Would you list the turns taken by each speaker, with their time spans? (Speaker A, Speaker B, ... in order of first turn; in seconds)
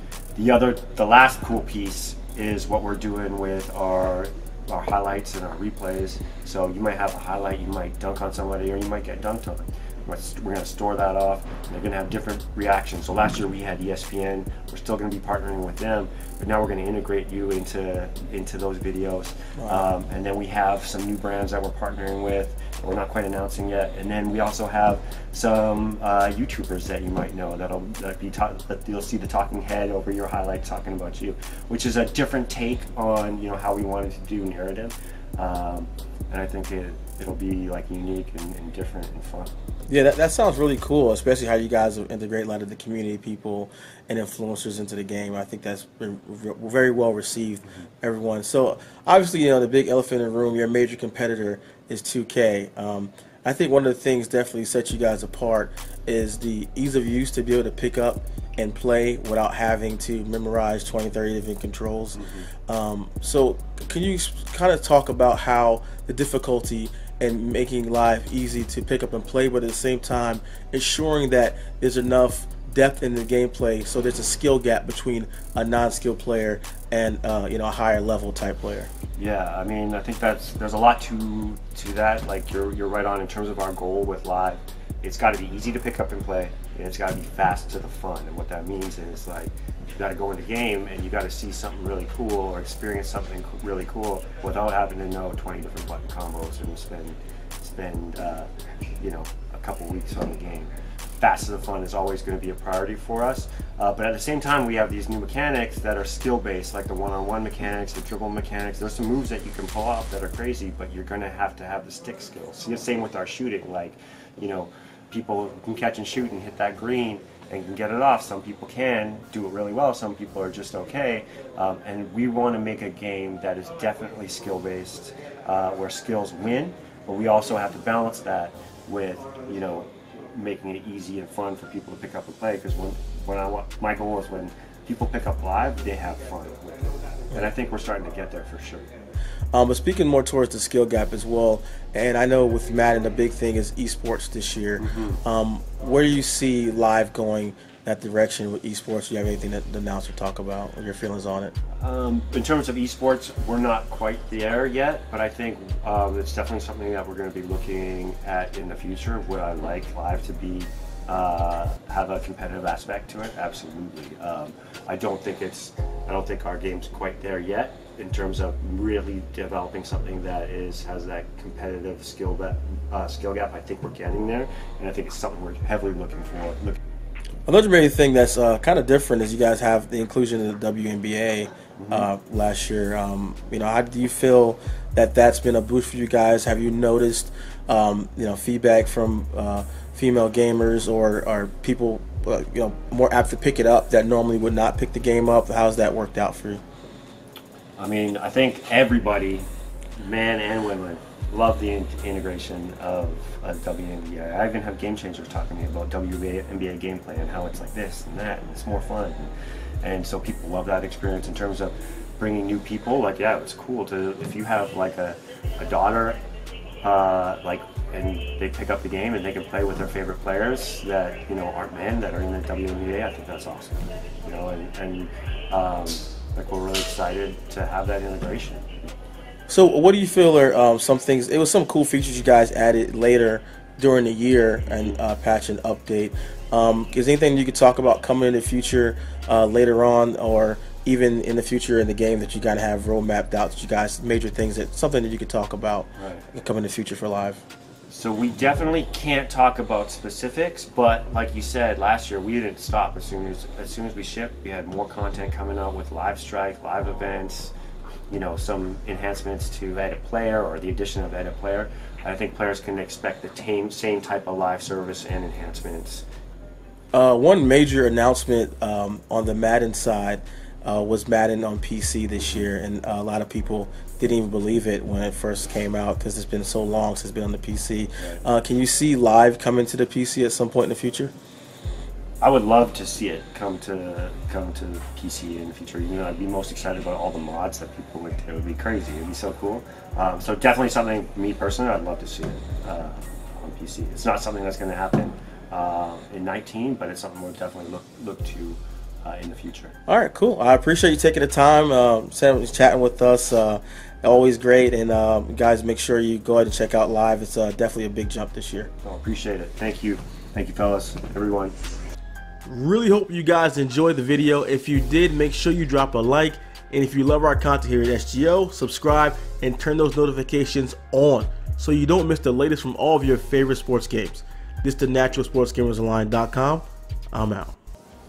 Speaker A: 0.3-39.5, 62.2-62.5, 79.2-98.5, 99.0-138.9, 144.8-145.2, 151.8-176.8, 181.8-182.1, 197.8-199.5, 200.0-209.3, 209.8-216.2, 216.8-228.9, 246.0-246.3, 247.9-257.5, 258.1-266.1, 282.2-299.8, 308.8-311.6
Speaker B: 19.6-19.8, 39.9-78.9, 139.5-151.6, 177.5-196.6, 229.5-247.4, 266.9-281.1, 299.9-308.7, 312.5-327.6